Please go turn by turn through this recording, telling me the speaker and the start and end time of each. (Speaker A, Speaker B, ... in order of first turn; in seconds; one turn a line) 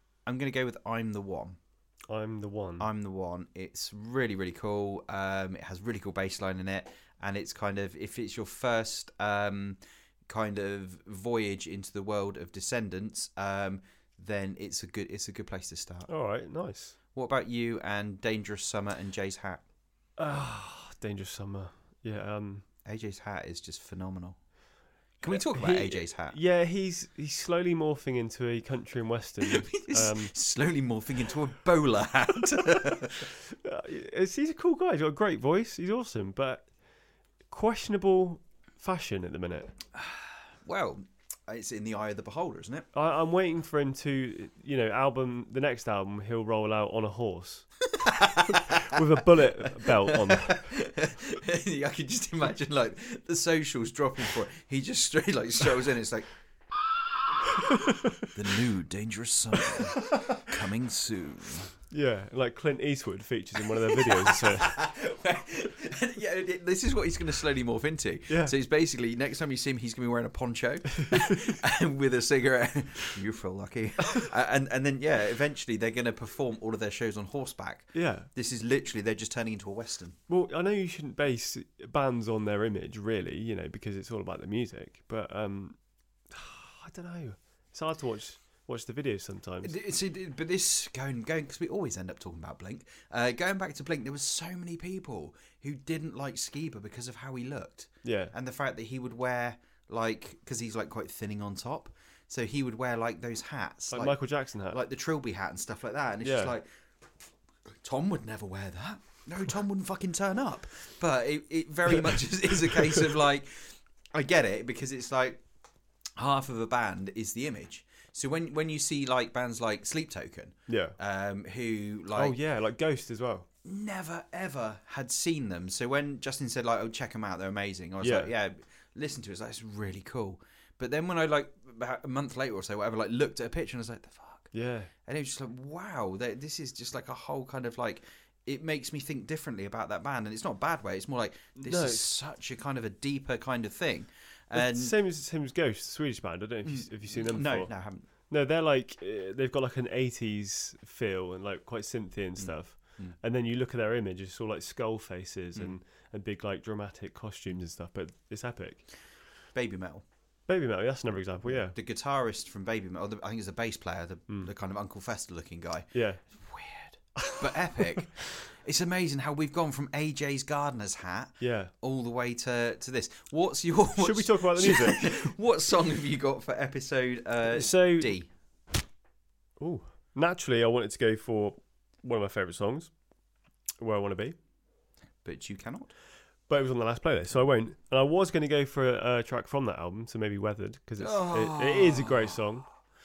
Speaker A: 0.2-1.6
Speaker B: 2.1-2.9
Speaker A: 2.8-16.1
Speaker B: 16.1-16.9
Speaker A: 17.1-19.6
Speaker B: 20.2-22.6
Speaker A: 22.9-24.4
Speaker A: 25.2-26.4
Speaker B: 25.3-30.3
Speaker A: 29.4-33.3
Speaker B: 33.5-36.8
Speaker B: 37.5-39.7
Speaker A: 40.0-42.9
Speaker B: 42.9-47.7
Speaker A: 48.0-49.0
Speaker B: 48.5-50.7
Speaker A: 49.8-56.3
Speaker A: 58.3-61.7
Speaker B: 61.9-64.8
Speaker A: 64.3-80.2
Speaker B: 68.3-68.5
Speaker B: 77.9-78.3
Speaker B: 80.3-89.7
Speaker A: 89.6-106.7
Speaker B: 98.0-98.3
Speaker B: 103.9-104.8
Speaker B: 106.2-106.5
Speaker A: 107.8-115.4
Speaker A: 116.2-122.4
Speaker B: 120.7-121.0
Speaker B: 122.1-123.5
Speaker A: 123.6-134.5
Speaker B: 128.0-128.3
Speaker B: 134.5-134.9
Speaker A: 135.0-144.9
Speaker B: 141.6-142.1
Speaker B: 144.5-158.9
Speaker A: 146.6-148.1
Speaker A: 152.4-153.2
Speaker A: 159.5-160.0
Speaker B: 160.5-161.8
Speaker A: 161.4-178.3
Speaker B: 165.9-166.2
Speaker B: 167.2-168.1
Speaker B: 171.4-171.7
Speaker B: 173.9-175.3
Speaker B: 177.5-178.1
Speaker B: 179.6-182.9
Speaker B: 183.8-184.3
Speaker A: 185.2-185.9
Speaker B: 186.5-192.8
Speaker A: 191.0-192.4